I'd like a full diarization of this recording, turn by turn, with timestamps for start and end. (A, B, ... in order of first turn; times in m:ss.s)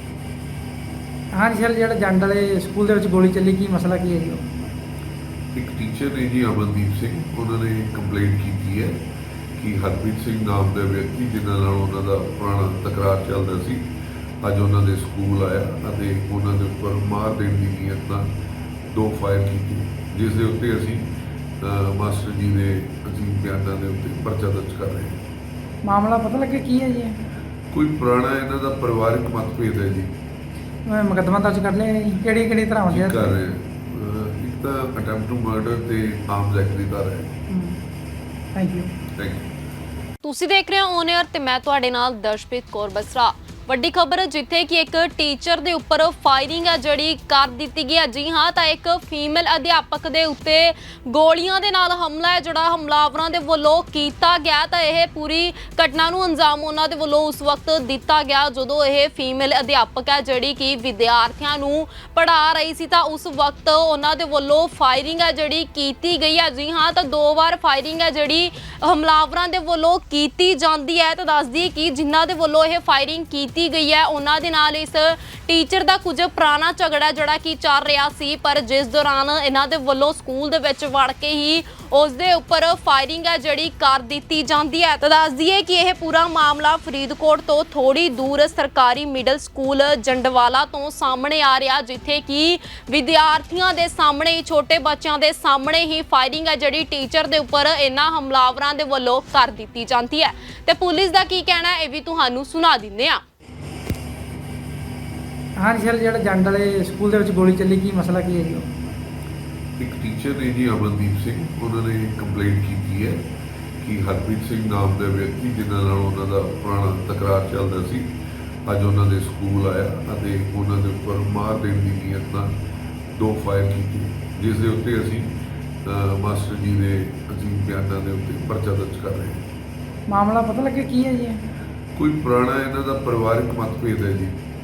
0:01.3-0:04.4 A
0:05.5-0:09.0 B
0:09.6-0:13.8 B
0:14.4-0:18.3 B
0:18.9-0:21.1 B
0:21.6-0:25.2 B
0:25.8-0:27.1 A
0:27.7-0:30.1 B
0:30.9-0:33.4 A
0:32.9-0:37.3 B
0:37.5-0:37.8 A
0:38.5-0:38.9 A
0:39.2-0:39.5 B
0:40.2-1:43.2 C
1:45.6-1:48.7 A
1:49.8-1:53.2 B
1:53.8-1:58.1 B
1:58.6-2:02.5 B
2:03.1-2:05.3 B
2:05.8-2:09.4 B
2:10.1-2:11.4 A
2:11.9-2:14.4 B